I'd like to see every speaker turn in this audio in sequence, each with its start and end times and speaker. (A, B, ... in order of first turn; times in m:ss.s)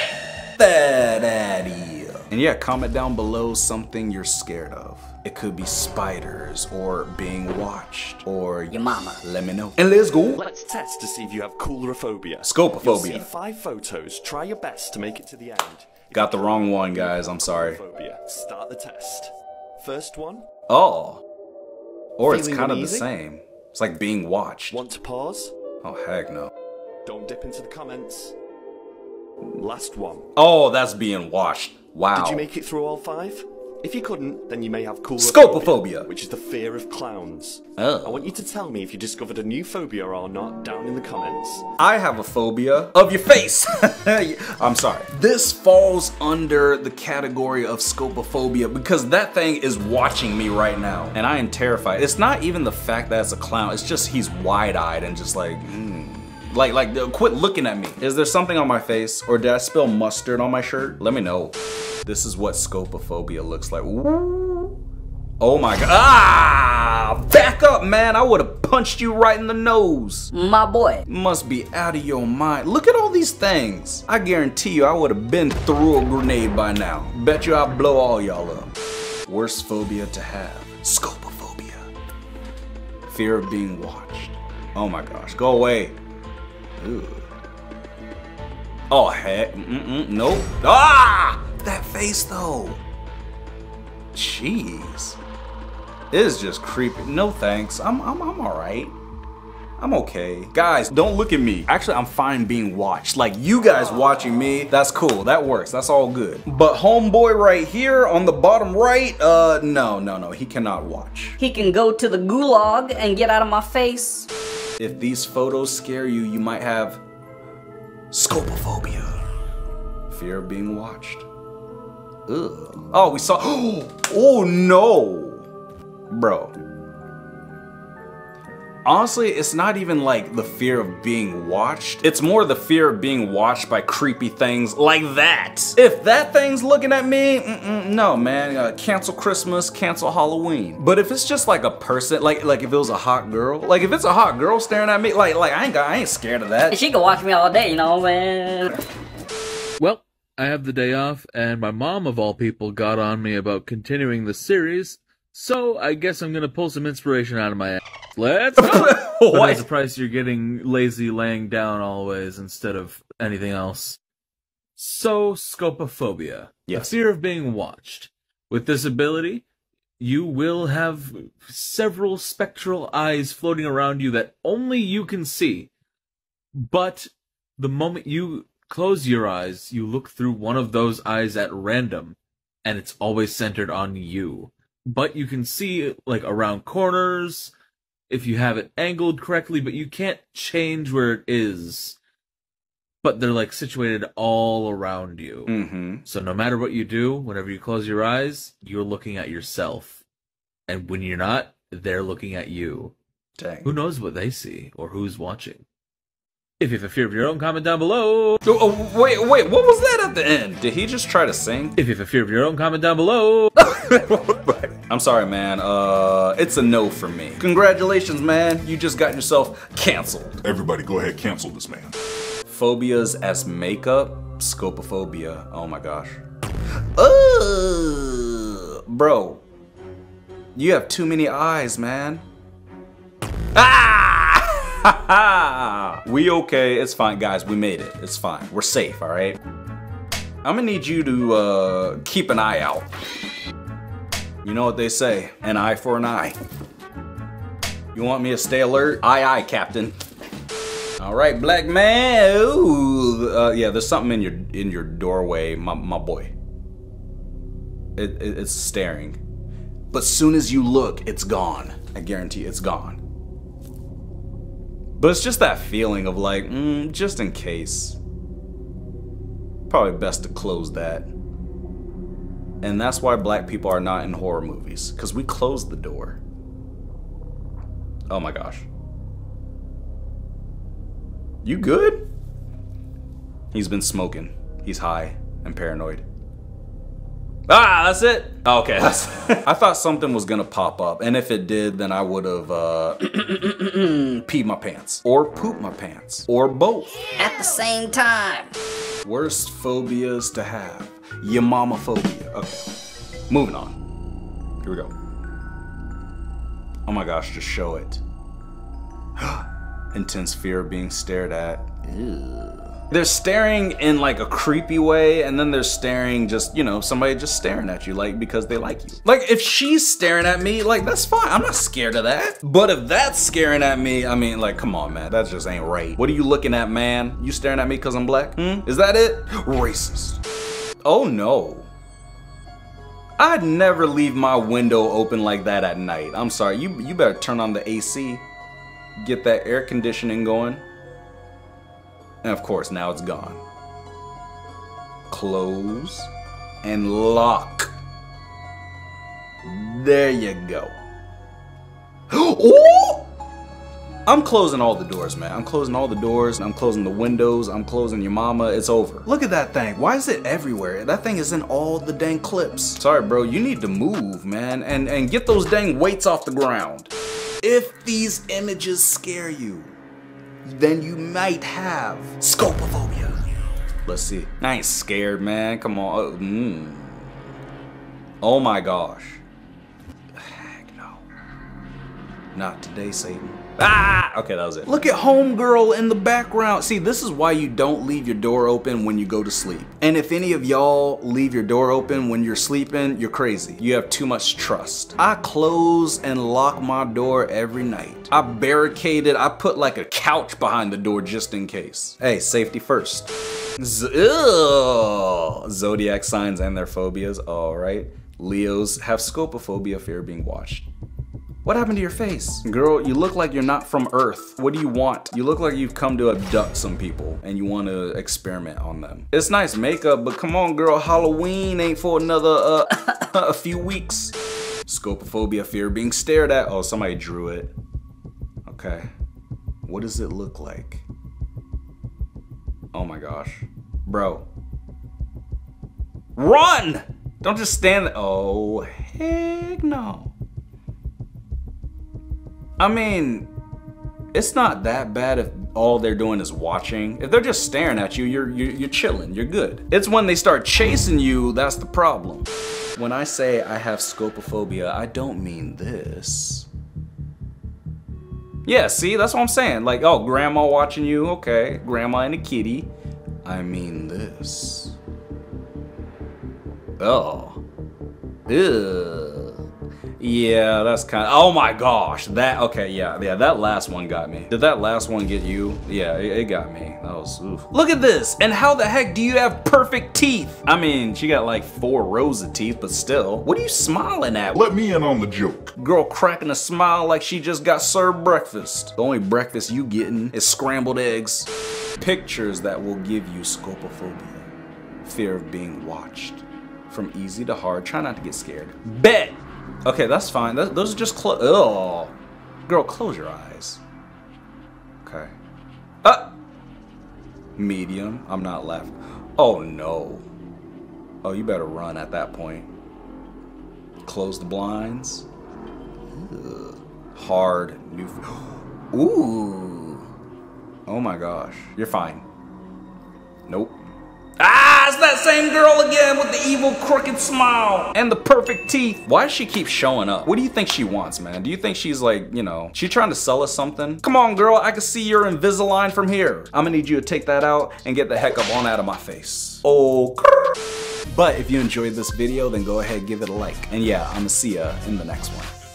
0:00.6-0:10.4 A
0:08.7-0:09.2 B
0:10.4-0:20.4 C
0:12.4-0:13.3 A
0:16.1-0:17.8 A
0:20.7-0:21.2 A
0:22.2-0:24.8 A
0:22.3-0:23.1 C
0:24.7-0:25.5 C
0:25.8-0:26.5 A
0:27.0-0:28.4 C
0:29.6-0:30.3 C
0:30.4-0:32.5 A
0:32.1-0:41.7 C
0:35.2-0:36.1 A
0:37.8-0:38.3 A
0:41.8-1:01.5 A
1:02.0-1:04.8 A
1:05.4-1:10.3 A
1:10.3-1:11.0 B
1:11.0-1:18.7 A
1:19.3-1:21.9 A
1:23.1-1:26.0 A
1:26.8-1:27.3 A
1:28.9-1:32.8 A
1:34.1-1:35.2 A
1:36.1-1:39.0 A
1:39.8-1:51.4 A
1:51.4-1:54.3 B
1:54.8-1:57.0 A
1:58.1-1:59.2 A
2:00.1-2:01.3 A
2:02.3-2:05.5 A
2:06.1-2:06.5 A
2:08.8-2:26.8 A
2:26.7-2:28.7 B
2:29.8-2:44.0 D
2:38.6-2:39.6 A
2:44.8-2:49.4 D
2:50.0-2:55.7 D
2:56.5-3:07.5 D
3:08.1-3:12.0 D
3:13.0-3:15.5 D
3:15.5-3:16.0 A
3:16.0-3:20.0 D
3:20.7-3:22.9 D
3:23.4-3:23.7 A
3:23.6-3:25.6 D
3:26.6-3:28.4 D
3:28.4-3:31.8 A
3:31.8-3:33.6 D
3:33.6-3:40.4 A
3:40.4-3:41.9 E
3:42.4-3:46.2 A
3:47.0-3:49.4 A
3:50.5-3:52.2 A
3:53.5-3:59.4 A
4:00.4-4:02.9 A
4:04.4-4:06.4 A
4:07.9-4:10.0 A
4:11.0-4:16.3 A
4:18.0-4:19.2 A
4:19.9-4:23.0 A
4:25.0-4:28.0 A
4:29.7-4:31.1 A
4:32.6-4:36.2 A
4:38.1-4:38.7 A
4:41.4-4:42.0 A
4:43.5-4:46.0 A
4:47.5-4:57.1 A
4:57.1-4:58.5 B
4:59.0-5:02.7 A
5:03.3-5:03.7 A
5:04.6-5:04.9 A
5:06.8-5:08.0 A
5:09.2-5:30.2 A
5:30.8-5:31.7 A
5:33.2-5:38.2 A
5:39.0-5:40.6 A
5:42.2-5:43.4 A
5:45.1-5:46.1 A
5:46.6-5:47.7 A
5:49.4-5:50.8 A
5:52.1-5:53.1 A
5:54.0-6:06.9 A
6:07.4-6:09.8 A
6:10.4-6:13.2 A
6:13.8-6:17.2 A
6:18.2-6:19.2 A
6:20.1-6:21.0 A
6:22.3-6:50.7 A
6:51.4-7:07.5 A
7:08.4-7:08.9 A
7:09.6-7:10.8 A
7:12.7-7:14.3 A
7:16.2-7:20.1 A
7:22.6-7:23.3 A
7:24.1-7:36.5 A
7:38.4-7:42.7 A
7:43.2-7:44.8 A
7:46.8-7:47.4 A
7:48.3-7:49.4 A
7:50.0-8:04.4 A
8:04.3-8:05.5 E
8:05.6-8:14.3 A
8:14.8-8:22.0 A
8:22.5-8:23.6 A
8:24.8-8:25.1 A
8:25.8-8:26.1 A
8:27.4-8:30.0 A
8:31.0-8:32.5 A
8:33.8-8:35.1 A
8:35.9-8:39.9 A
8:40.7-8:42.0 A
8:43.3-8:43.6 A
8:44.2-9:05.3 A